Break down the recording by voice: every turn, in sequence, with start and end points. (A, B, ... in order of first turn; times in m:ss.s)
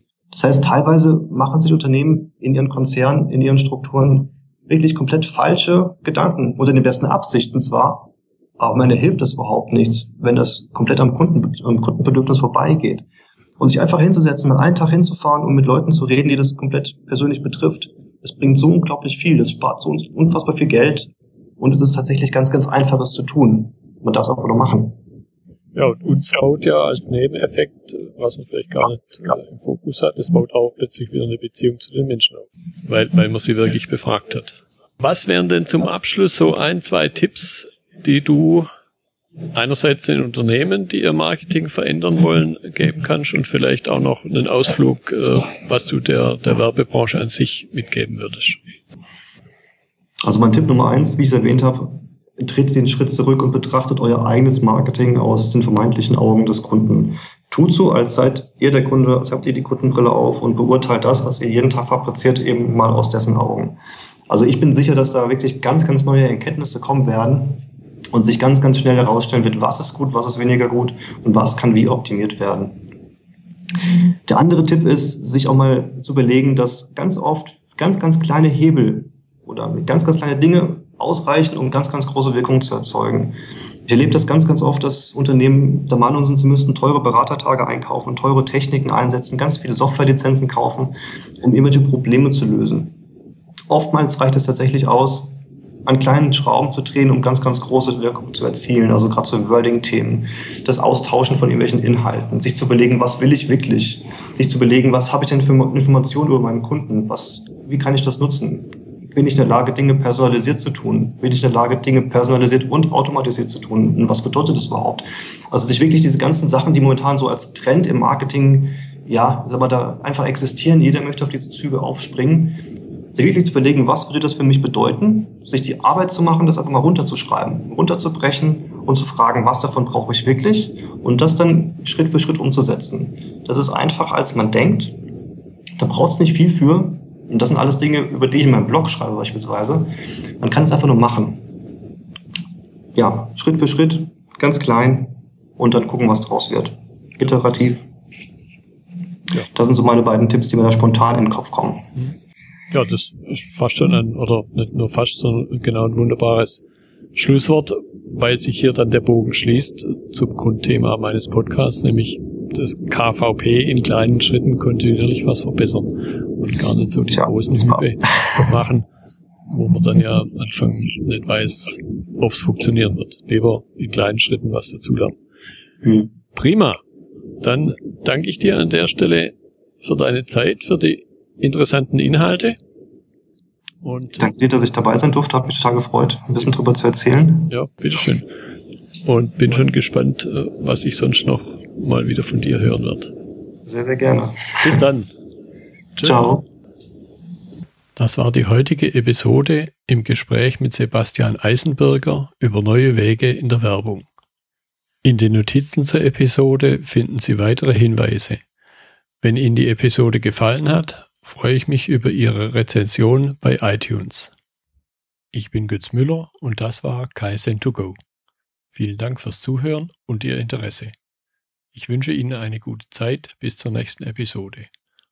0:00.3-0:13.0 A
0:13.6-0:25.0 A
0:25.7-0:38.7 B
0:39.5-0:48.6 B
0:50.2-1:03.8 A
1:04.3-1:12.8 A
1:14.2-1:23.3 A
1:23.9-1:33.0 A
1:33.7-2:02.6 A
2:03.1-2:14.9 A
2:15.8-2:21.5 A
2:22.9-2:27.9 A
2:29.5-2:31.9 A
2:32.7-2:48.9 B
2:47.2-2:47.8 A
2:49.5-2:55.2 B
2:55.8-2:56.1 A
2:56.3-2:56.8 B
2:57.4-3:02.6 B
3:03.8-3:04.3 B
3:04.2-3:07.5 A
3:07.5-3:08.3 B
3:09.0-3:13.1 B
3:13.6-3:14.7 A
3:14.6-3:15.1 B
3:16.0-3:16.3 B
3:16.0-3:16.4 A
3:18.0-3:24.1 B
3:25.0-3:28.4 B
3:29.2-3:34.3 B
3:35.3-3:38.0 B
3:38.7-3:40.9 B
3:41.7-3:44.7 B